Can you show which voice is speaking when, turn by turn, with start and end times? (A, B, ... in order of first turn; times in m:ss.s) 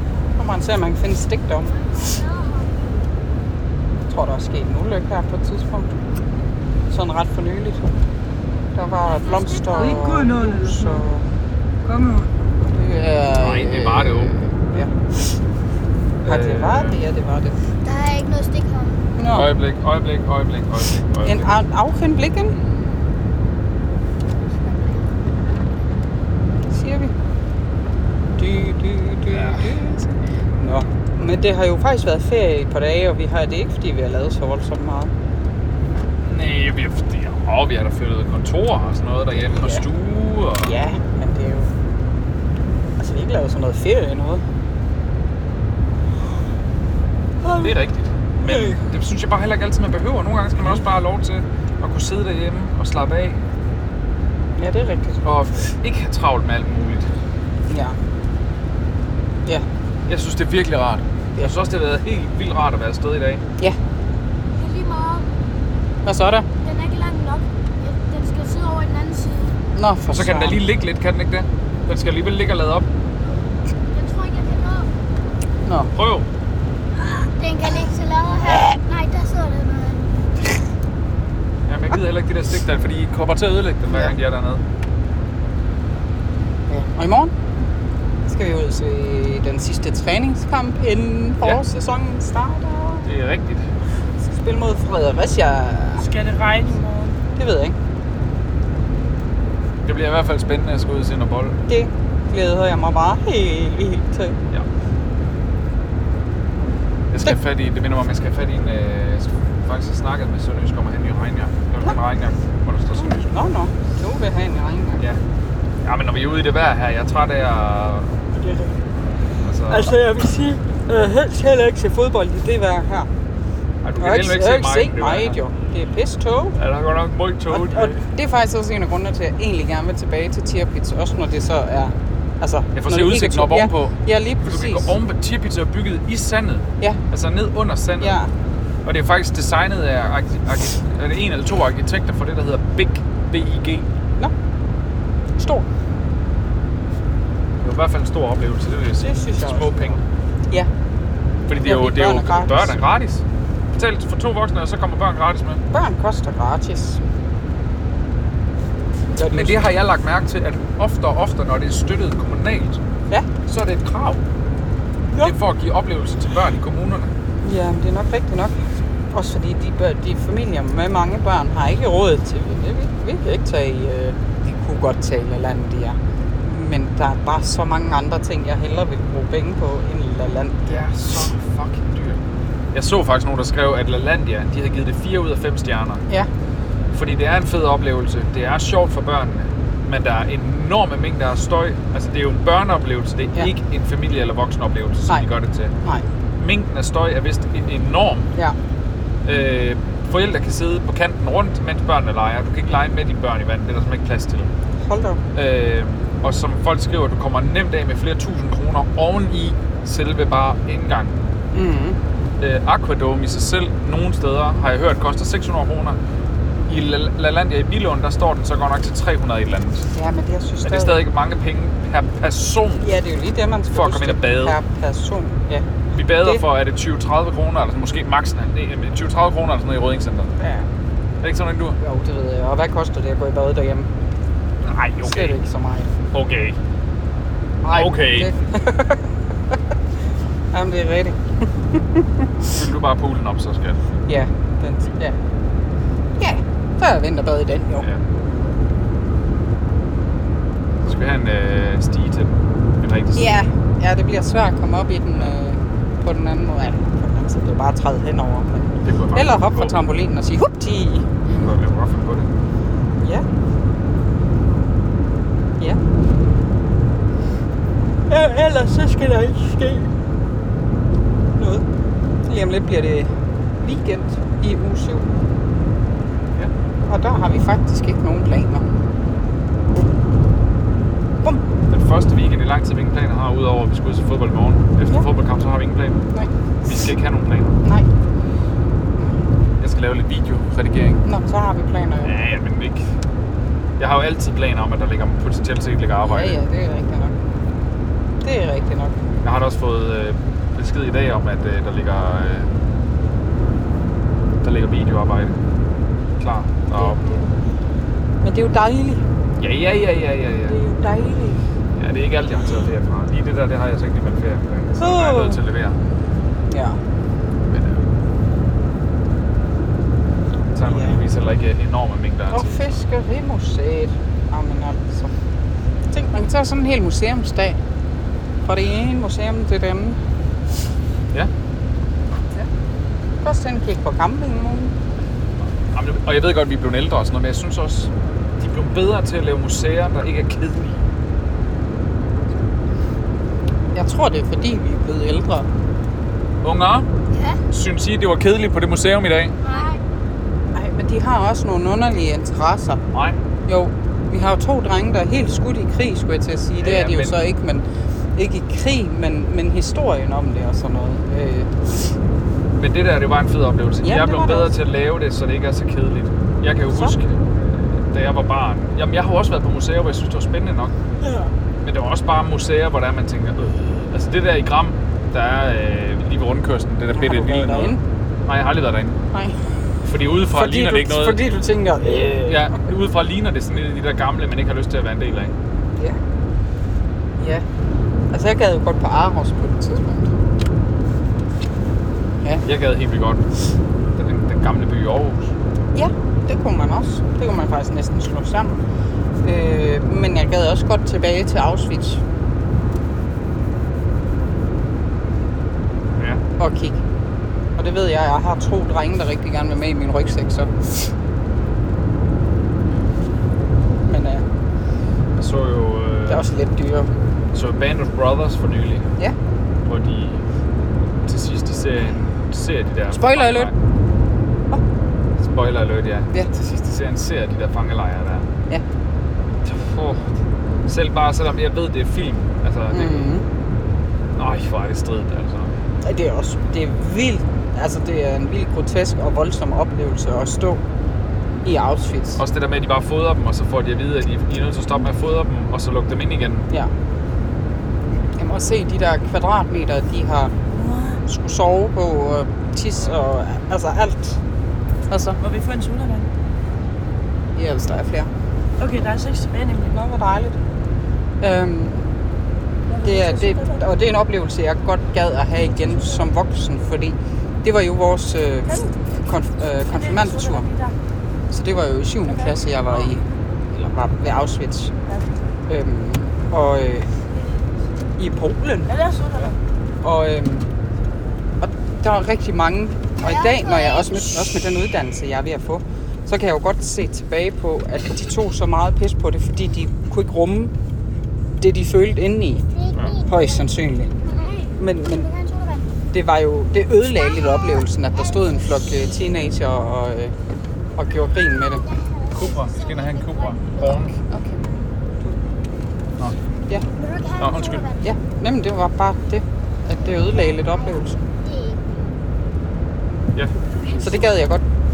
0:00.4-0:02.0 A
0:01.7-0:02.9 B
0:04.1-0:05.9 A
0:06.9-0:07.9 A
0:08.7-0:11.3 A
0:09.0-0:10.0 B
0:09.8-0:11.0 C
0:11.8-0:12.3 C
0:12.6-0:15.3 A
0:13.4-0:14.4 D
0:16.2-0:17.0 D
0:16.2-0:17.6 A
0:17.8-0:19.1 B
0:19.2-0:19.5 A
0:19.3-0:21.5 D
0:21.2-0:22.6 A
0:24.5-0:25.0 B
0:26.7-0:27.1 A
0:28.4-0:35.1 A
0:29.3-0:29.8 D
0:36.2-0:40.7 D
0:39.5-0:39.8 A
0:40.6-0:41.7 A
0:43.0-0:44.4 A
0:47.4-0:47.7 A
0:47.6-0:53.4 D
0:48.4-0:48.8 A
0:54.6-0:55.2 A
0:55.2-0:57.1 D
0:57.7-0:58.0 A
1:00.1-1:03.4 D
1:04.5-1:05.3 B
1:06.0-1:06.4 A
1:06.6-1:09.6 B
1:09.7-1:10.6 A
1:10.1-1:12.8 D
1:13.9-1:14.9 B
1:15.6-1:15.9 A
1:15.9-1:16.3 D
1:16.9-1:20.1 B
1:21.7-1:24.6 D
1:23.9-1:24.1 A
1:26.7-1:27.3 A
1:28.2-1:33.1 A
1:33.0-1:33.7 D
1:34.2-1:36.1 A
1:36.0-1:37.2 C
1:37.2-1:37.8 A
1:39.8-1:41.6 D
1:41.7-1:44.4 A
1:47.1-1:53.3 D
1:52.9-1:55.0 A
1:55.8-1:58.2 D
1:58.3-1:58.8 A
1:59.4-1:59.9 D
1:59.7-2:03.1 A
2:03.8-2:05.4 D
2:04.0-2:06.6 A
2:06.6-2:08.0 D
2:07.5-2:14.9 A
2:12.7-2:18.2 D
2:18.0-2:18.3 A
2:18.8-2:23.9 D
2:25.4-2:25.6 A
2:27.6-2:30.0 D
2:29.0-2:30.7 A
2:31.5-2:33.2 D
2:31.6-2:32.8 A
2:33.8-2:35.6 D
2:35.7-2:37.0 A
2:39.1-2:39.6 A
2:39.3-2:42.8 D
2:43.4-2:44.2 D
2:45.2-2:47.1 D
2:47.4-2:48.6 A
2:49.1-3:00.8 A
3:00.6-3:02.2 D
3:02.7-3:06.0 D
3:06.9-3:15.7 D
3:16.4-3:18.3 D
3:19.2-3:24.5 D
3:24.9-3:25.2 A
3:25.3-3:31.2 D
3:31.5-3:32.0 A
3:32.4-3:36.0 D
3:36.7-3:39.9 D
3:39.9-3:41.0 A
3:40.6-3:42.9 D
3:42.8-3:46.4 A
3:43.7-3:44.6 D
3:45.9-3:50.3 D
3:50.4-3:50.7 A
3:51.2-3:51.8 D
3:51.8-3:53.9 A
3:54.6-3:55.4 D
3:55.0-3:55.9 A
3:56.1-3:56.6 D
3:57.6-3:59.0 A
3:57.7-3:58.3 D
4:00.5-4:02.6 A
4:02.5-4:03.8 D
4:04.1-4:05.2 A
4:06.2-4:07.9 A
4:10.8-4:13.3 D
4:13.1-4:21.4 A
4:18.8-4:19.8 D
4:21.3-4:22.3 D
4:28.1-4:29.9 A
4:31.4-4:31.6 A
4:32.2-4:35.1 A
4:36.9-4:38.6 A
4:41.7-4:46.0 D
4:46.6-4:47.6 D
4:49.6-4:51.0 D
4:51.0-4:52.1 A
4:52.0-4:52.9 D
4:53.8-4:56.4 D
4:56.0-4:57.1 A
4:58.2-4:59.0 A
4:59.2-5:02.5 D
5:04.4-5:05.4 D
5:06.2-5:07.0 D
5:06.7-5:07.3 A
5:08.2-5:09.0 A
5:09.4-5:10.6 D
5:10.4-5:11.4 A
5:11.8-5:15.8 D
5:14.8-5:15.4 A
5:16.5-5:16.8 A
5:17.5-5:17.9 D
5:20.5-5:22.6 D
5:20.6-5:21.0 A
5:22.3-5:25.1 A
5:25.9-5:27.6 A
5:28.4-5:30.0 A
5:33.2-5:34.7 A
5:35.7-5:40.8 D
5:43.7-5:45.5 A
5:46.4-5:46.9 D
5:47.1-5:47.4 B
5:47.5-5:49.4 D
5:49.4-5:49.8 B
5:50.5-5:52.8 A
5:52.9-5:53.2 D
5:53.4-5:57.6 A
5:56.6-5:57.2 D
5:58.2-6:01.9 A
6:02.6-6:10.7 D
6:03.8-6:04.5 A
6:06.7-6:06.9 A
6:11.0-6:11.3 A
6:11.6-6:19.0 D
6:16.9-6:17.8 A
6:19.8-6:21.2 D
6:20.3-6:22.4 A
6:21.8-6:25.3 D
6:27.2-6:27.4 A
6:28.1-6:30.1 A
6:32.4-6:33.2 D
6:34.0-6:35.3 D
6:35.7-6:38.6 A
6:39.2-6:42.0 A
6:46.0-6:46.2 D
6:46.4-6:46.8 A
6:47.6-6:50.9 A
6:53.9-6:54.2 A
6:55.2-6:56.3 D
6:56.1-6:56.9 A
6:57.3-6:58.9 D
6:59.6-7:00.2 D
7:01.0-7:03.5 D
7:02.9-7:03.5 A
7:05.2-7:08.3 D
7:09.4-7:10.1 D
7:10.6-7:13.0 D
7:12.7-7:13.2 A
7:14.2-7:15.5 D
7:15.8-7:20.6 A
7:21.4-7:22.2 A
7:22.2-7:26.5 D
7:28.2-7:30.3 A
7:30.5-7:31.0 C
7:31.0-7:34.2 A
7:34.9-7:35.2 A
7:35.2-7:36.1 C
7:37.3-7:38.1 A
7:38.6-7:39.7 C
7:39.7-7:40.4 A
7:41.2-7:41.8 A
7:42.7-7:43.7 C
7:42.8-7:50.5 A
7:45.6-7:46.0 C
7:48.5-7:48.7 C
7:49.6-7:50.7 C
7:51.3-7:54.7 A
7:52.0-7:52.9 C
7:55.5-7:56.9 A
7:58.0-7:58.7 A
7:58.7-7:59.4 C
7:59.8-8:00.5 A
8:01.4-8:10.5 A
8:03.0-8:04.4 B
8:11.4-8:12.4 A
8:12.4-8:13.5 B
8:12.7-8:13.0 D
8:13.0-8:13.9 A
8:14.0-8:15.7 B
8:14.6-8:15.1 A
8:15.9-8:20.1 A
8:16.9-8:19.0 B
8:20.8-8:21.6 A
8:21.4-8:24.0 B
8:22.1-8:24.0 D
8:24.1-8:24.4 A
8:26.7-8:27.9 B
8:27.2-8:27.6 D
8:27.8-8:31.0 A
8:29.9-8:31.6 B
8:33.6-8:34.1 B
8:33.8-8:34.4 A